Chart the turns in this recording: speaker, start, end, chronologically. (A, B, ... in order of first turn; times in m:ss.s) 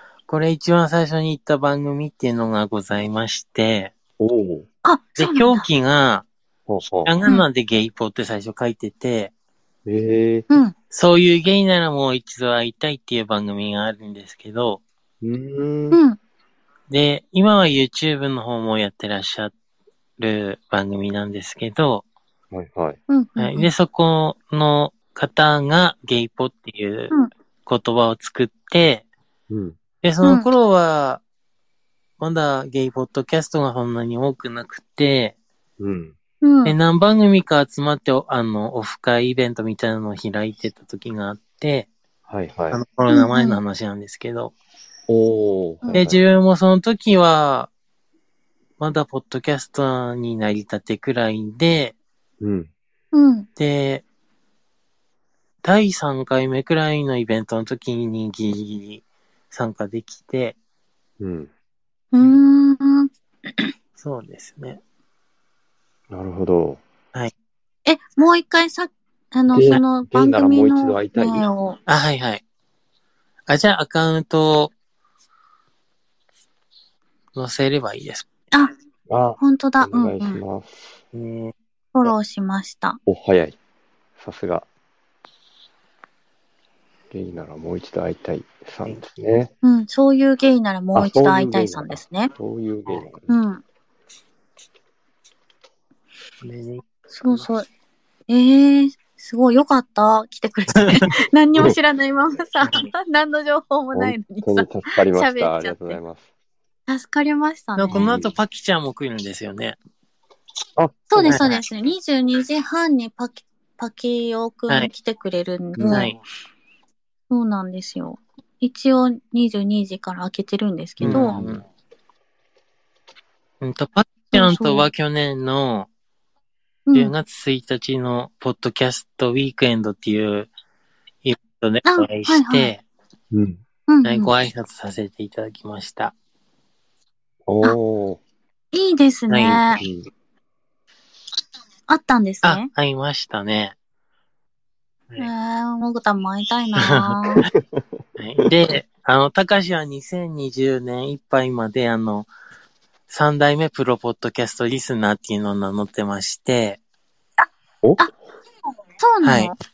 0:00.3-0:03.9 A
0:04.2-0:04.7 B
0:04.8-0:05.7 C
0:05.2-0:06.3 A
0:06.7-0:07.1 B
0:07.0-0:09.3 A
0:09.8-0:10.5 B
0:10.9-0:14.8 A
0:15.2-0:16.0 B
0:15.9-0:16.2 C
0:16.9-0:19.5 A
0:20.2-0:22.1 A
0:22.5-0:23.0 B
0:23.1-0:23.7 C
0:23.4-0:27.1 A
0:27.6-0:29.1 A
0:29.5-0:29.8 B
0:30.0-0:31.2 A
0:30.2-0:30.5 C
0:32.2-0:35.4 A
0:35.8-0:36.1 B
0:36.4-0:36.8 C
0:36.6-0:41.9 A
0:42.3-0:42.8 B
0:42.7-0:44.6 A
0:43.1-0:43.6 C
0:45.1-0:46.2 B
0:45.9-0:47.7 A
0:48.8-0:52.0 A
0:52.4-0:52.7 B
0:53.1-0:53.4 C
0:53.6-0:54.0 A
0:55.6-1:00.6 A
1:01.2-1:01.5 B
1:02.1-1:03.7 C
1:04.0-1:04.8 A
1:06.1-1:06.8 B
1:07.8-1:11.8 C
1:09.5-1:11.4 B
1:11.9-1:12.4 A
1:13.5-1:14.7 A
1:17.3-1:18.3 A
1:19.1-1:21.0 B
1:19.4-1:20.4 C
1:21.1-1:21.5 A
1:21.9-1:23.0 C
1:23.1-1:23.6 B
1:24.2-1:24.6 B
1:27.1-1:29.5 B
1:29.6-1:32.3 C
1:30.9-1:33.3 B
1:33.3-1:33.6 C
1:36.4-1:37.5 A
1:37.1-1:37.7 C
1:38.3-1:46.0 C
1:42.6-1:42.9 A
1:43.9-1:46.3 B
1:46.9-1:48.1 C
1:47.8-1:49.8 A
1:47.9-1:48.4 B
1:50.8-1:51.4 B
1:51.1-1:56.1 C
1:51.3-1:51.6 A
1:55.8-1:56.1 B
1:55.9-1:56.2 A
1:57.3-2:01.4 C
2:01.0-2:01.6 B
2:01.0-2:01.6 A
2:03.6-2:05.9 A
2:04.3-2:04.9 C
2:06.9-2:07.1 C
2:06.9-2:10.5 A
2:11.2-2:12.8 A
2:11.8-2:12.7 C
2:13.3-2:13.6 B
2:13.9-2:14.3 C
2:14.0-2:16.1 A
2:17.5-2:18.2 B
2:18.7-2:19.8 C
2:19.3-2:19.6 A
2:19.8-2:20.1 B
2:21.9-2:22.7 C
2:22.4-2:23.7 A
2:25.2-2:27.5 C
2:26.9-2:27.2 A
2:27.5-2:27.8 B
2:28.2-2:32.3 A
2:33.1-2:36.8 A
2:39.0-2:39.6 C
2:39.2-2:39.5 A